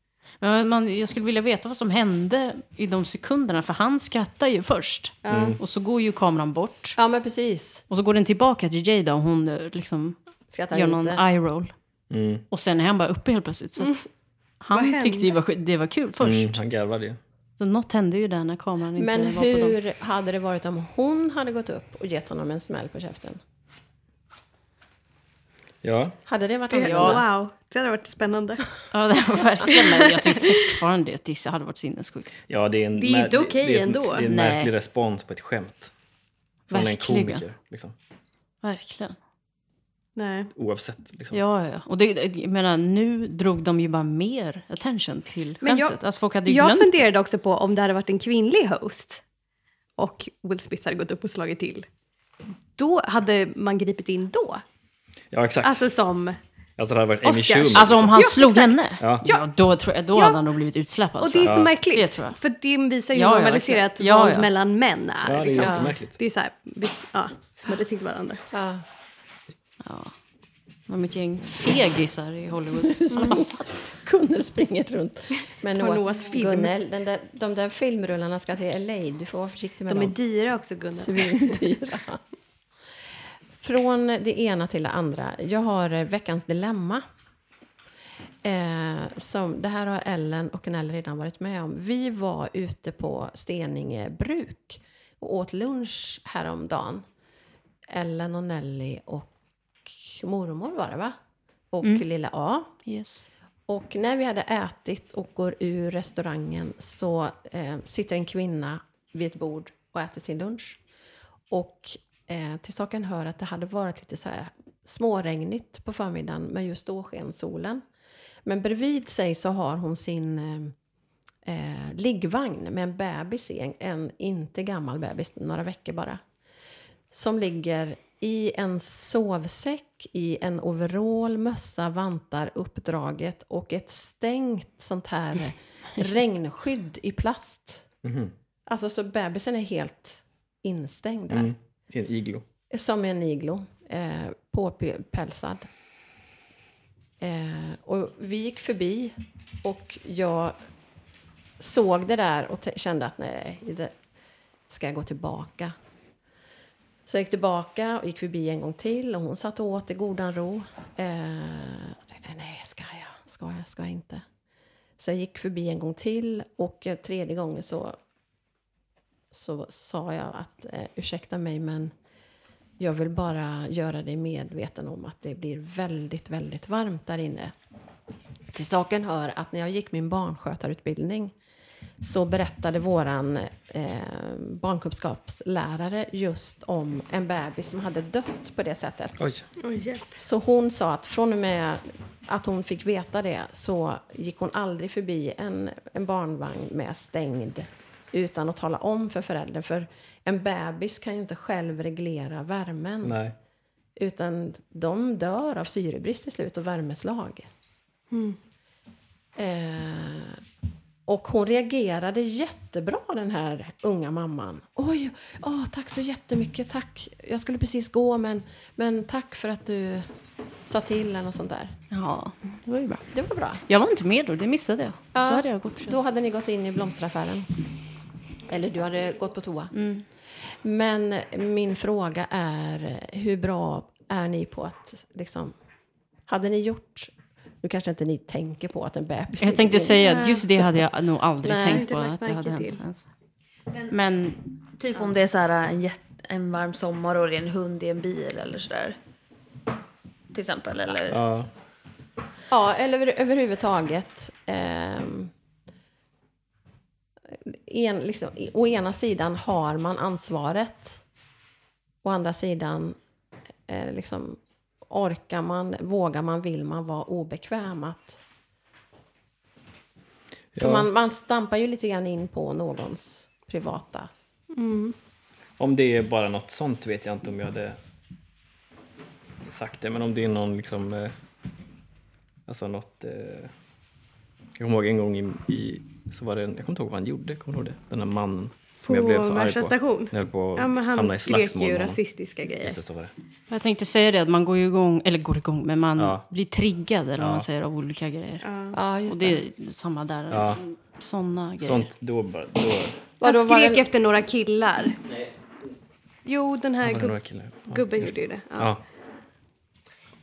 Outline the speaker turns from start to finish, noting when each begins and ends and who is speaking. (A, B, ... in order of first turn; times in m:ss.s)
0:00.4-0:07.0 A
0:05.2-0:05.6 B
0:05.3-0:05.6 C
0:07.0-0:07.8 D
0:07.9-0:10.2 A
0:10.5-0:11.2 D
0:10.7-0:11.7 A
0:12.1-0:12.5 C
0:12.5-0:14.0 A
0:13.8-0:14.1 B
0:14.6-0:16.6 A
0:14.7-0:15.3 B
0:16.2-0:17.2 C
0:17.6-0:19.8 A
0:19.0-0:23.4 D
0:25.8-0:26.2 C
0:26.3-0:27.2 D
0:26.7-0:28.7 B
0:26.8-0:27.2 A
0:28.9-0:32.4 A
0:29.6-0:30.7 B
0:32.5-0:35.9 C
0:33.0-0:34.3 B
0:34.3-0:34.7 A
0:36.7-0:38.0 C
0:36.7-0:37.4 A
0:38.6-0:39.2 A
0:40.2-0:40.5 B
0:40.6-0:41.4 C
0:41.3-0:47.0 A
0:45.6-0:49.2 B
0:50.0-0:51.9 B
0:52.8-0:54.6 B
0:55.3-0:55.9 C
0:55.6-0:56.4 B
0:56.8-0:58.2 C
0:57.2-0:59.4 B
0:57.7-1:02.4 A
0:59.0-0:59.2 C
1:00.1-1:00.4 B
1:01.2-1:08.4 B
1:01.4-1:01.7 C
1:03.1-1:04.5 A
1:05.2-1:06.2 C
1:05.6-1:05.9 D
1:08.5-1:08.8 D
1:09.8-1:10.2 A
1:10.9-1:14.0 A
1:12.8-1:20.2 D
1:13.1-1:13.4 B
1:15.7-1:16.7 B
1:19.9-1:21.6 B
1:20.9-1:22.2 D
1:23.6-1:27.0 D
1:28.4-1:37.0 D
1:37.9-1:39.3 D
1:39.8-1:41.2 D
1:41.7-1:42.7 D
1:42.9-1:43.2 A
1:43.7-1:50.8 D
1:51.5-1:57.8 D
1:58.4-2:00.8 D
2:01.4-2:06.2 D
2:07.1-2:17.8 D
2:18.0-2:18.3 C
2:18.7-2:21.5 D
2:21.3-2:22.4 C
2:22.7-2:25.7 D
2:27.2-2:30.6 D
2:31.6-2:33.9 D
2:34.7-2:35.8 D
2:37.1-2:44.2 D
2:45.0-2:48.0 D
2:49.3-2:51.9 D
2:52.8-2:57.5 D
2:58.5-3:01.3 D
3:02.0-3:09.3 D
3:09.2-3:09.4 C
3:09.6-3:10.2 B
3:10.2-3:23.2 D
3:23.0-3:23.4 C
3:24.0-3:27.5 D
3:28.1-3:28.4 B
3:29.4-3:30.4 D
3:31.1-3:40.1 D
3:40.7-3:41.7 D
3:41.9-3:43.1 A
3:43.1-3:43.6 D
3:43.7-3:46.0 A
3:45.1-3:47.6 D
3:48.5-3:49.7 D
3:49.7-3:50.0 A
3:50.4-3:55.6 D
3:56.3-4:00.4 D
3:59.4-4:03.1 A
4:00.0-4:00.4 B
4:01.4-4:01.8 D
4:01.7-4:02.8 B
4:03.9-4:04.4 A
4:04.8-4:09.0 E
4:10.3-4:11.2 E
4:11.1-4:11.5 C
4:12.5-4:15.3 D
4:17.3-4:21.0 D
4:22.0-4:23.0 D
4:23.7-4:28.2 D
4:30.6-4:30.9 C
4:30.6-4:34.1 D
4:34.5-4:35.0 B
4:35.6-4:37.8 C
4:39.5-4:41.2 C
4:42.5-4:43.5 C
4:44.6-4:52.0 C
4:48.8-4:52.8 B
4:52.6-4:53.1 C
4:53.5-4:58.4 A
4:56.0-4:56.2 C
4:57.2-4:57.5 C
4:58.4-4:58.8 B
4:58.7-4:59.4 D
4:59.1-5:01.9 A
5:00.3-5:00.6 C
5:01.6-5:03.1 C
5:03.2-5:03.8 D
5:03.2-5:05.0 B
5:06.2-5:07.2 B
5:06.8-5:08.8 C
5:07.7-5:08.7 B